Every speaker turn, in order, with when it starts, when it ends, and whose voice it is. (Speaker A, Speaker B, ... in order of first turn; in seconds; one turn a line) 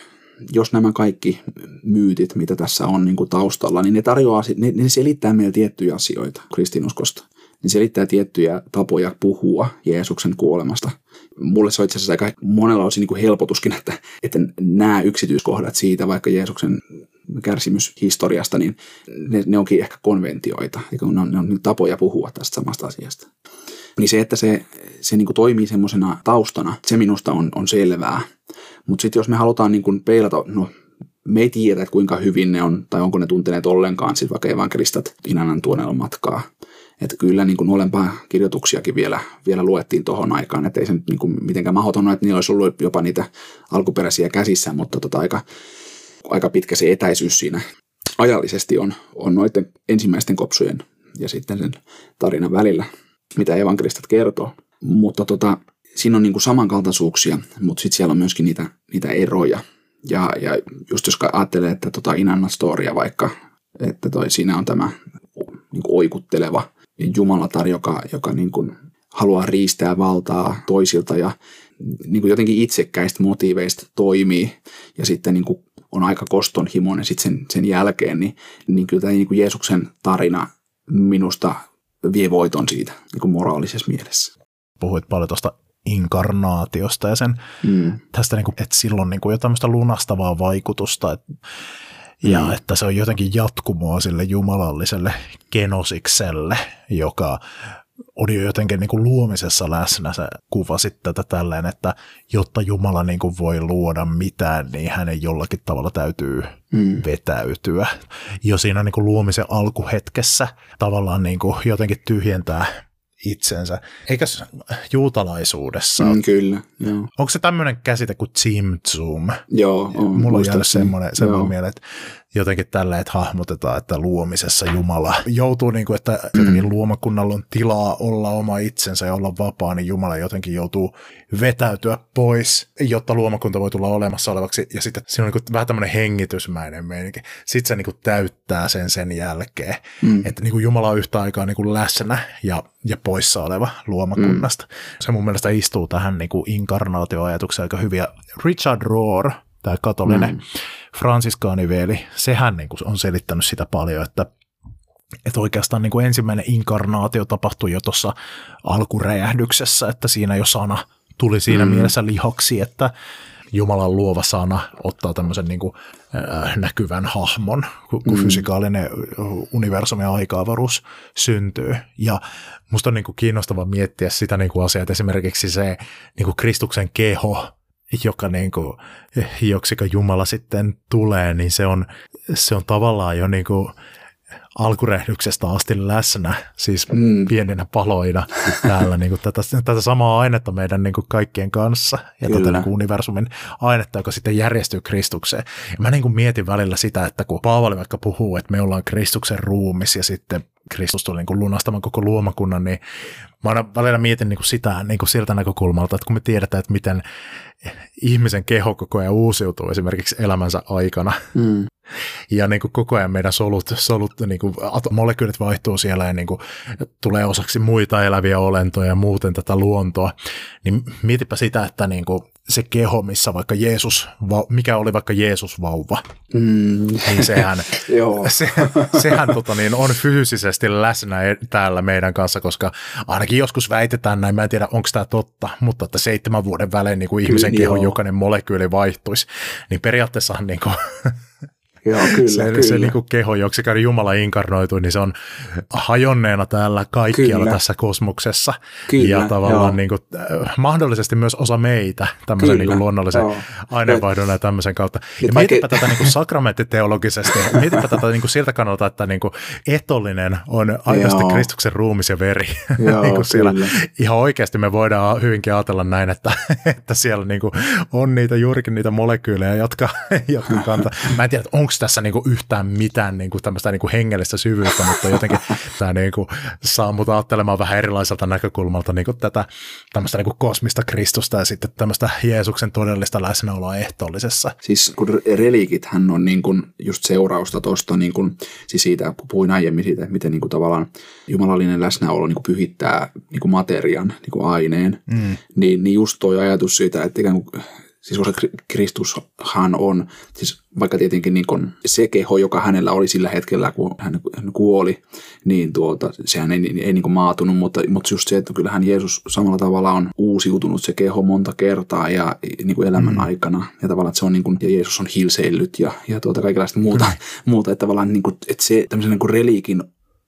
Speaker A: 0.5-23.3
Speaker A: 24.0-28.3
Speaker A: 28.9-30.7
Speaker A: 31.2-36.5
Speaker A: 37.0-45.4
Speaker A: 46.2-47.6
Speaker A: 48.2-84.3
Speaker B: 84.8-87.4
Speaker A: 87.6-88.0
Speaker B: 88.1-91.2
Speaker B: 92.2-97.4
Speaker A: 92.2-92.5
Speaker B: 98.1-107.9
Speaker A: 106.7-107.0
Speaker B: 108.4-112.7
Speaker B: 113.2-116.2
Speaker A: 116.0-117.1
Speaker B: 117.2-119.4
Speaker A: 119.5-121.5
Speaker B: 119.9-121.8
Speaker B: 122.3-150.4
Speaker A: 126.3-126.6
Speaker A: 140.0-140.3
Speaker A: 144.2-144.4
Speaker A: 150.1-150.4
Speaker B: 150.9-154.3
Speaker B: 155.2-162.9
Speaker A: 161.5-161.9
Speaker B: 163.5-183.7
Speaker A: 168.1-168.4
Speaker B: 184.6-202.8
Speaker A: 186.9-187.3
Speaker A: 192.3-192.7
Speaker B: 203.4-207.0
Speaker B: 207.6-211.3
Speaker A: 211.3-211.7
Speaker B: 212.3-226.0
Speaker A: 226.3-229.3
Speaker B: 227.1-241.2
Speaker A: 237.2-237.9
Speaker A: 241.8-242.9
Speaker B: 242.0-284.5
Speaker A: 247.1-247.6
Speaker A: 248.9-249.8
Speaker A: 252.4-254.1
Speaker A: 255.2-256.1
Speaker A: 257.3-257.9
Speaker A: 260.9-261.5
Speaker A: 262.8-263.8
Speaker A: 284.6-319.9